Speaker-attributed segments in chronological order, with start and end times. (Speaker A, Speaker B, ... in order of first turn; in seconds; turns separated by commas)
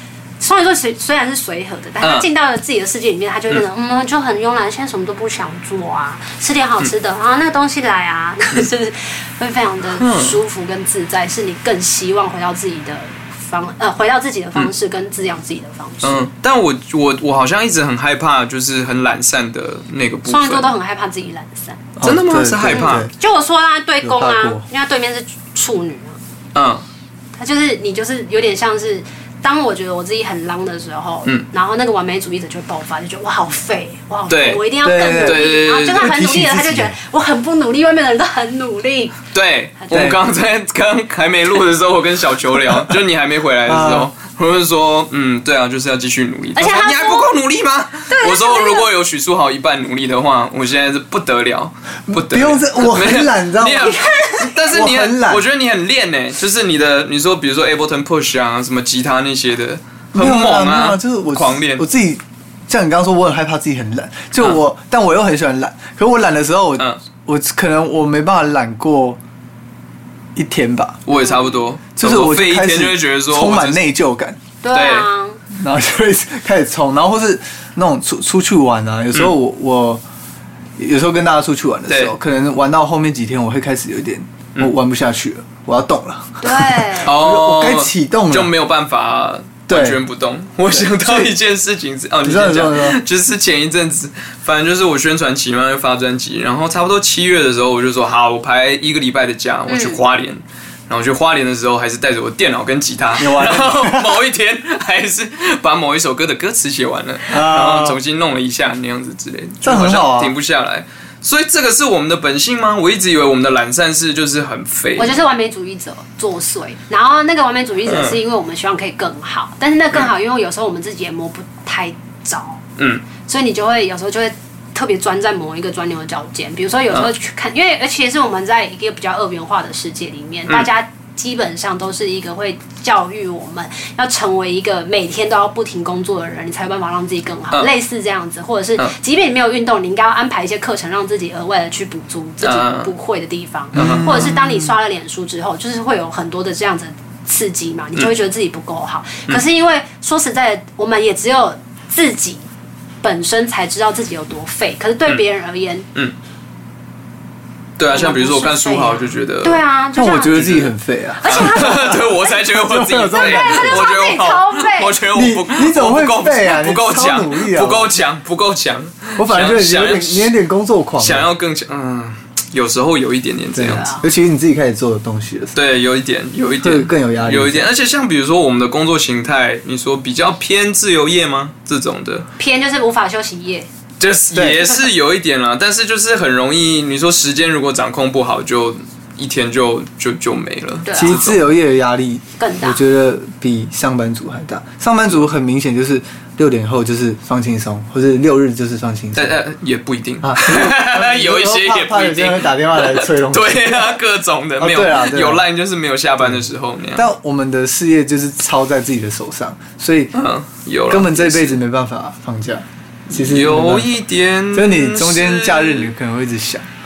Speaker A: 0.4-16.3, Speaker B: 2.0-2.2, Speaker B: 10.0-10.4, Speaker B: 16.0-20.7, Speaker A: 20.3-21.8, Speaker C: 22.0-23.1, Speaker B: 22.0-23.1, Speaker A: 22.7-26.2, Speaker C: 24.0-24.6, Speaker B: 26.5-26.8, Speaker A: 27.4-39.2, Speaker B: 34.3-36.2, Speaker C: 34.8-37.0, Speaker B: 39.3-61.8, Speaker C: 39.9-40.2, Speaker C: 43.6-44.1, Speaker A: 46.5-47.3, Speaker A: 48.1-48.9, Speaker C: 52.1-54.0, Speaker A: 53.8-54.5, Speaker C: 54.6-55.4, Speaker C: 60.1-69.2, Speaker C: 70.3-71.0, Speaker B: 71.0-73.8, Speaker A: 71.1-71.6, Speaker C: 72.0-74.4, Speaker A: 74.6-75.4, Speaker B: 74.7-75.1, Speaker C: 75.5-80.0, Speaker C: 80.8-88.5, Speaker B: 81.9-82.1, Speaker A: 86.4-87.1, Speaker B: 87.0-115.2, Speaker C: 89.7-90.0, Speaker C: 90.7-91.3, Speaker C: 92.2-93.0, Speaker A: 99.7-100.0, Speaker C: 103.2-104.2, Speaker C: 107.3-108.0, Speaker C: 109.6-110.3, Speaker A: 115.0-122.6, Speaker B: 117.8-118.2, Speaker B: 122.8-123.0, Speaker A: 123.2-152.5, Speaker B: 142.4-142.9, Speaker B: 143.7-144.7, Speaker C: 143.8-144.3, Speaker A: 153.0-155.8, Speaker B: 157.8-159.6, Speaker A: 157.9-160.6, Speaker C: 159.9-163.9, Speaker B: 160.3-160.7, Speaker A: 161.2-162.3, Speaker B: 161.2-170.3, Speaker A: 163.1-164.9, Speaker C: 165.1-167.9, Speaker C: 169.2-171.3, Speaker B: 171.0-173.9, Speaker C: 173.5-175.6, Speaker A: 173.6-174.1, Speaker B: 175.5-182.3, Speaker C: 176.6-177.7, Speaker A: 182.4-183.7, Speaker B: 184.0-191.4, Speaker C: 184.3-184.7, Speaker A: 190.8-191.2, Speaker C: 190.9-199.4, Speaker A: 192.4-192.8, Speaker B: 199.1-207.1, Speaker C: 200.2-203.9, Speaker C: 204.6-205.4, Speaker C: 206.9-210.1, Speaker B: 210.1-211.6, Speaker C: 210.9-213.9, Speaker B: 213.1-215.9, Speaker C: 214.5-216.7